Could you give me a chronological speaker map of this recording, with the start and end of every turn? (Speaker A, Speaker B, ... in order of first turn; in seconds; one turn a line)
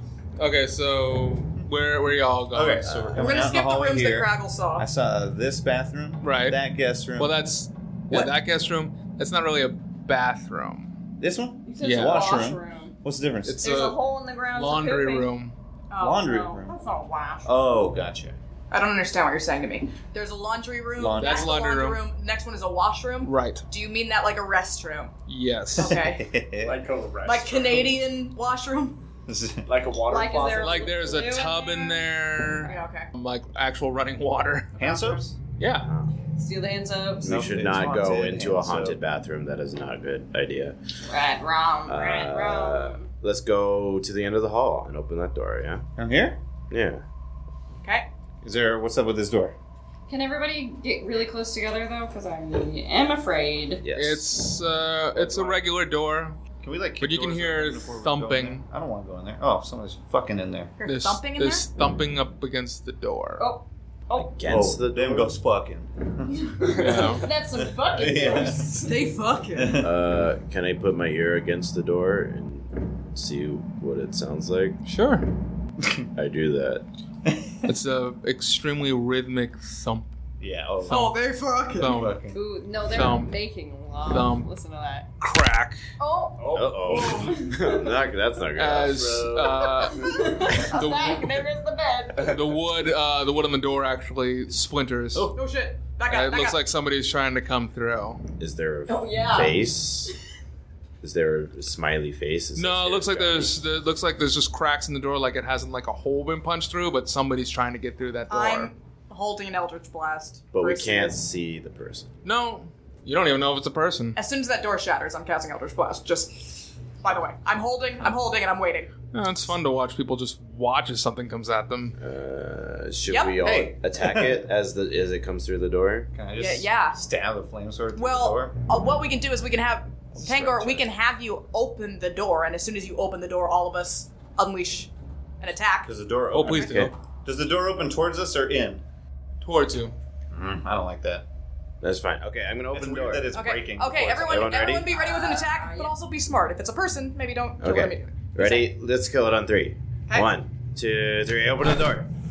Speaker A: 0.4-3.2
Speaker B: 2.5-7.4
Speaker C: 3.1-4.9
Speaker A: 6.2-6.6
Speaker A: 7.2-10.9
Speaker B: 11.2-13.6
Speaker D: 11.7-12.9
Speaker A: 11.8-12.2
Speaker A: 13.4-14.0
Speaker D: 13.6-15.3
Speaker A: 14.5-15.6
Speaker C: 15.9-16.3
Speaker B: 15.9-16.8
Speaker D: 16.2-17.5
Speaker B: 17.4-18.4
Speaker C: 18.7-25.1
Speaker B: 20.9-21.5
Speaker A: 21.1-22.0
Speaker A: 23.2-23.6
Speaker A: 25.3-26.0
Speaker C: 25.8-26.3
Speaker B: 25.8-26.8
Speaker E: 26.6-28.0
Speaker C: 27.2-29.0
Speaker B: 29.3-29.7
Speaker E: 29.7-30.9
Speaker D: 30.1-32.8
Speaker A: 30.6-34.7
Speaker C: 32.7-33.1
Speaker C: 34.8-35.2
Speaker B: 34.8-35.4
Speaker A: 35.6-35.9
Speaker F: 35.8-36.1
Speaker D: 36.4-37.3
Speaker F: 37.2-40.8
Speaker B: 37.3-39.0
Speaker D: 41.0-43.1
Speaker F: 41.9-45.9
Speaker B: 46.0-46.4
Speaker F: 46.7-47.0
Speaker B: 48.4-49.5
Speaker D: 50.1-53.8
Speaker F: 53.8-54.2
Speaker A: 53.9-56.4
Speaker B: 55.1-55.6
Speaker B: 56.6-60.7
Speaker A: 57.0-58.7
Speaker C: 60.8-61.6
Speaker A: 60.8-63.5
Speaker D: 63.4-64.3
Speaker F: 64.1-65.3
Speaker B: 64.5-66.6
Speaker D: 66.4-69.0
Speaker A: 66.8-67.2
Speaker B: 67.6-68.9
Speaker C: 68.8-69.8
Speaker B: 69.5-69.9
Speaker F: 69.8-74.8
Speaker A: 74.8-75.3
Speaker B: 75.8-76.0
Speaker F: 76.2-76.8
Speaker A: 77.7-80.1
Speaker B: 80.4-81.1
Speaker A: 80.9-81.2
Speaker C: 80.9-82.0
Speaker A: 81.8-82.2
Speaker B: 81.8-82.4
Speaker D: 82.3-85.1
Speaker A: 82.9-83.3
Speaker A: 84.0-84.5
Speaker A: 85.2-85.8
Speaker C: 86.0-86.4
Speaker E: 86.4-87.3
Speaker F: 86.5-89.1
Speaker C: 86.9-87.4
Speaker D: 87.1-87.9
Speaker A: 88.5-91.4
Speaker E: 88.8-90.0
Speaker D: 89.8-92.4
Speaker A: 92.2-95.3
Speaker C: 95.3-96.6
Speaker A: 96.1-98.2
Speaker F: 98.4-100.1
Speaker D: 98.9-100.1
Speaker F: 101.0-103.5
Speaker A: 102.5-108.7
Speaker C: 108.3-111.2
Speaker F: 110.5-112.1
Speaker A: 112.2-114.2
Speaker C: 114.2-118.9
Speaker A: 119.1-122.0
Speaker F: 122.0-126.1
Speaker C: 123.1-123.3
Speaker B: 123.4-124.4
Speaker B: 126.1-128.5
Speaker C: 126.3-127.0
Speaker C: 128.0-134.9
Speaker B: 130.1-130.9
Speaker C: 135.4-135.9
Speaker B: 135.8-138.8
Speaker A: 136.3-136.9
Speaker C: 136.5-136.8
Speaker A: 139.4-139.9
Speaker B: 140.3-141.2
Speaker F: 141.8-143.3
Speaker B: 142.7-144.5
Speaker C: 143.3-148.7
Speaker F: 144.2-144.9
Speaker D: 144.9-145.9
Speaker F: 147.6-152.1